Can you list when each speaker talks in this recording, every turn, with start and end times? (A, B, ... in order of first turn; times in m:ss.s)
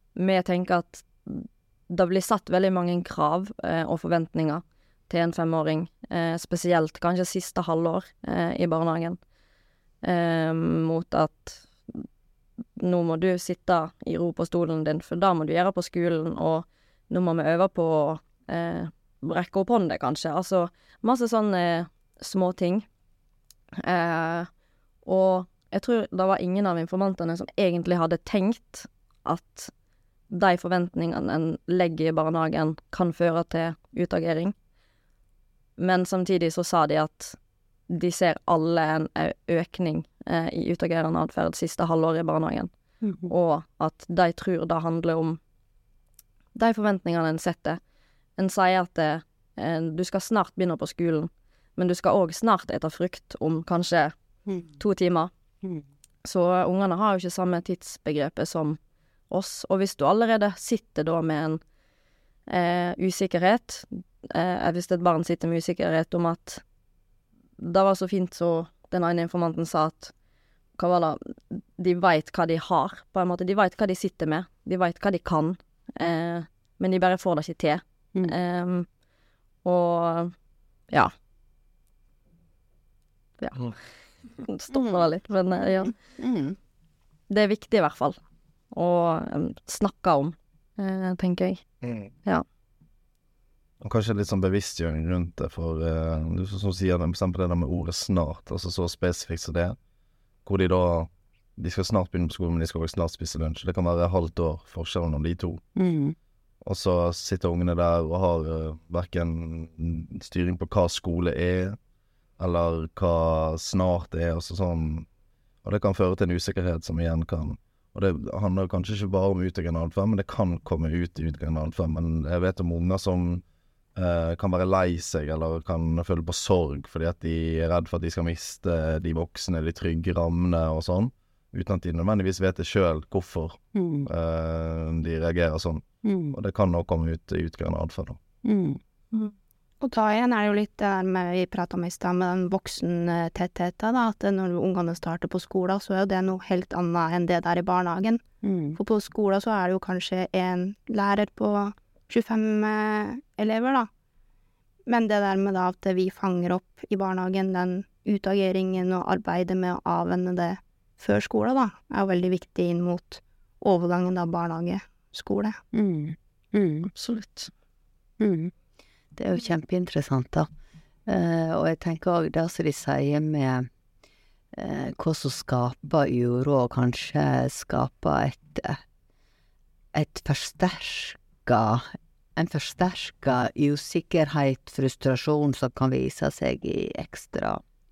0:00.2-0:09.2 A
0:10.0-0:12.0 A
0:12.8-0:22.8 A
0:23.8-0:24.5 A
0:25.0-0:29.7 A
0:30.3-0:34.5 A
0:35.8-0:37.4 A
0:37.9-0:42.7 A
0:43.0-0:43.3 B
0:43.3-0:45.4 A
0:46.5-0:47.8 A
0:48.4-0:54.1 A
0:54.8-0:55.3 A
0:56.2-0:58.8 A
0:59.3-1:01.6 A
1:02.5-1:06.6 A
1:07.6-1:10.1 A
1:10.8-1:18.8 A
1:19.6-1:20.3 A
1:23.4-1:23.8 A
1:24.3-1:26.0 A
1:24.7-1:25.1 B
1:25.6-1:26.6 B
1:27.3-1:28.2 A
1:28.7-1:31.6 A
1:31.8-1:32.1 C
1:33.8-1:39.8 C
1:40.4-1:45.6 C
1:45.8-1:46.1 B
1:46.6-1:51.8 C
1:52.4-1:55.1 C
1:55.6-2:03.4 C
2:04.0-2:18.2 C
2:13.7-2:14.1 B
2:16.0-2:16.4 B
2:18.4-2:18.8 B
2:19.8-2:28.2 D
2:28.4-2:28.8 B
2:28.8-2:33.9 D
2:34.8-2:45.6 D
2:45.7-2:46.9 B
2:46.9-2:47.5 A
2:48.2-2:48.5 B
2:49.1-2:50.5 B
2:51.1-2:53.7 B
2:54.5-2:58.8 B
2:59.9-3:07.6 B